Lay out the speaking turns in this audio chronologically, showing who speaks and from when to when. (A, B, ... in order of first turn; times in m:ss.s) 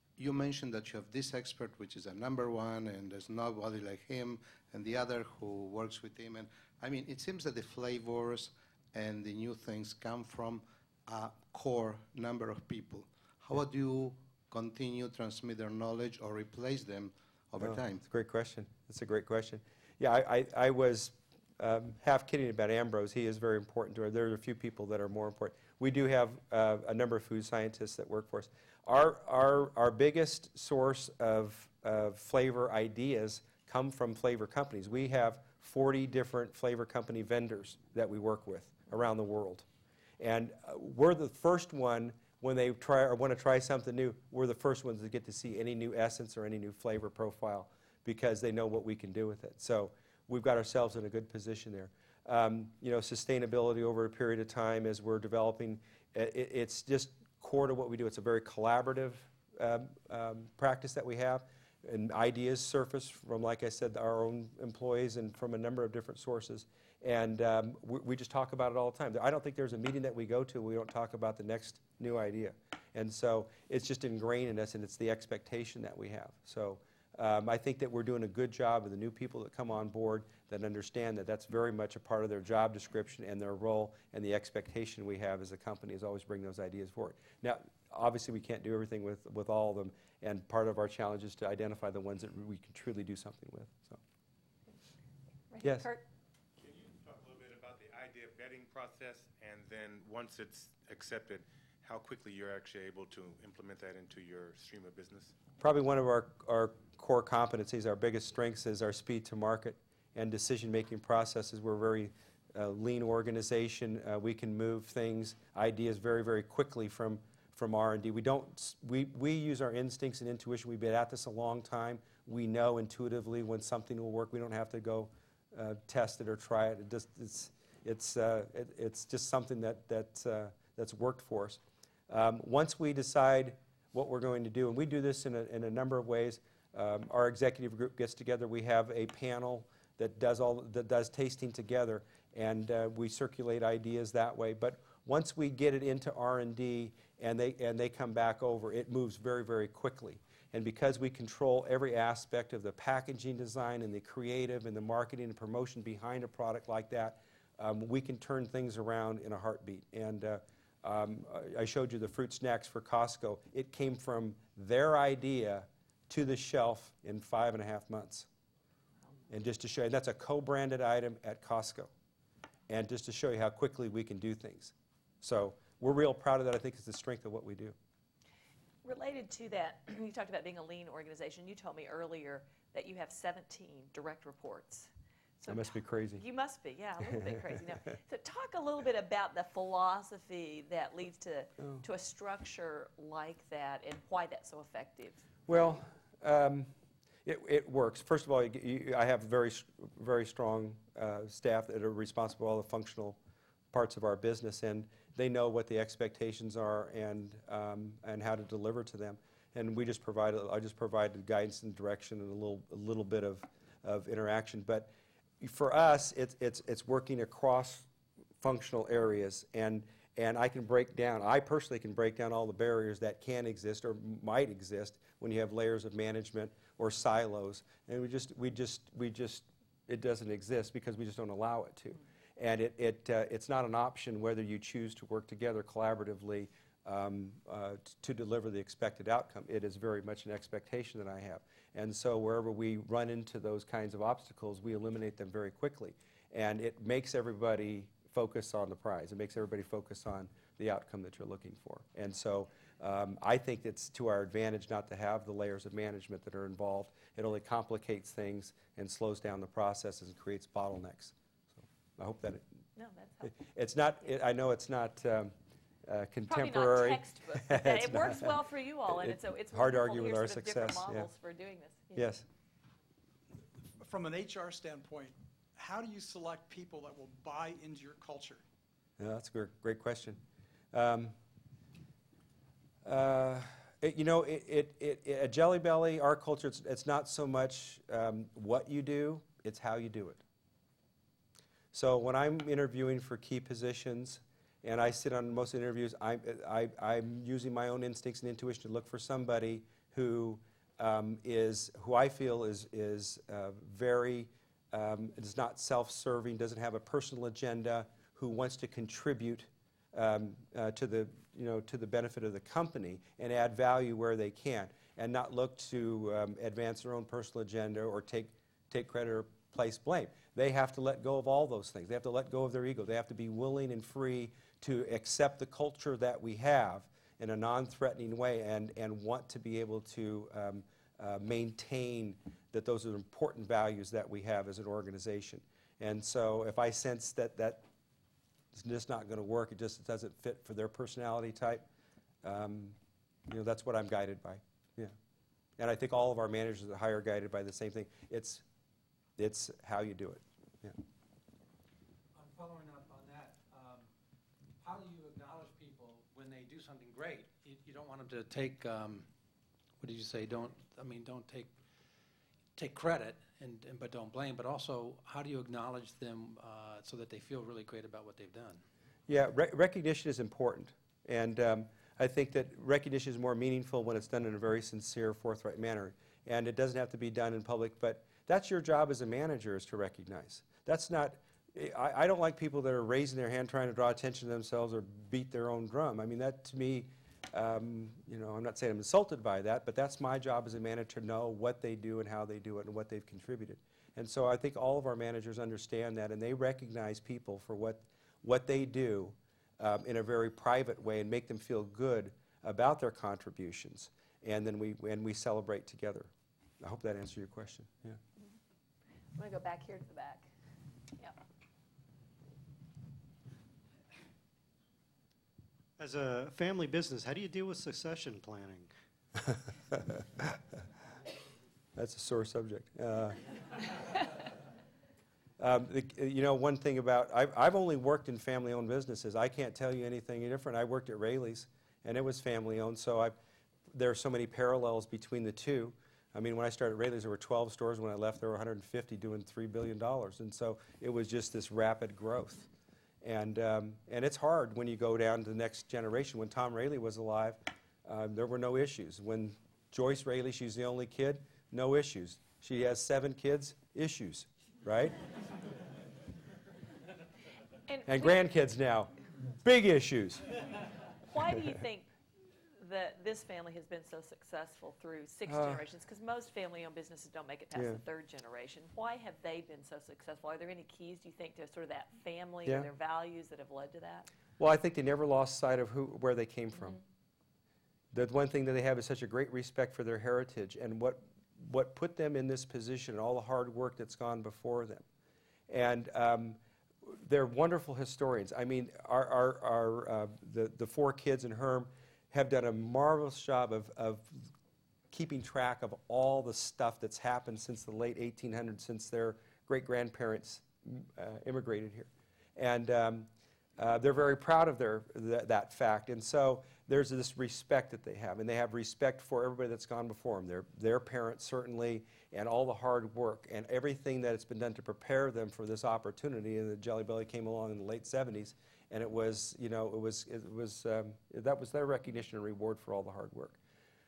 0:00.2-0:18.0 A
0:17.6-0:39.7 B
0:40.2-1:34.0 B
1:35.5-1:36.0 C
1:35.6-1:35.9 B
1:36.6-1:45.3 D
1:45.6-2:48.3 B
2:49.3-2:51.9 B
2:52.7-2:57.8 B
2:58.8-3:04.9 C
3:05.4-3:15.5 C
3:05.5-3:06.2 B
3:07.1-3:07.4 B
3:15.5-3:16.7 B
3:17.2-3:23.2 B
3:23.7-3:34.9 B
3:35.4-3:37.9 B
3:38.4-4:22.4 B
4:22.8-4:23.3 C
4:23.2-4:25.3 B
4:25.9-4:31.1 B
4:26.3-4:32.2 C
4:31.9-4:32.2 B
4:33.8-4:38.4 E
4:39.0-4:40.2 B
4:40.7-4:41.2 B
4:42.8-4:50.2 B
4:51.7-5:37.6 B
5:38.5-5:41.6 B
5:42.2-5:42.8 B
5:43.3-5:44.9 B
5:45.6-5:48.4 B
5:49.2-5:50.8 B
5:52.2-5:53.9 F
5:54.6-5:59.1 F
5:59.8-6:01.5 F
6:02.6-6:08.6 F
6:09.1-6:48.0 B
6:49.2-6:50.3 C
6:55.8-6:58.7 G
7:01.8-7:03.2 B
7:03.7-7:04.0 B
7:05.4-7:13.1 B
7:13.7-7:22.5 B
7:23.0-7:35.0 B
7:37.7-7:38.3 C
7:37.9-7:40.4 B
7:41.1-7:41.9 C
7:42.6-7:54.1 C
7:45.3-7:45.6 B
7:47.6-7:47.8 B
7:54.4-7:56.8 B
7:57.9-8:04.8 B
8:05.5-8:14.3 B
8:14.9-8:43.4 B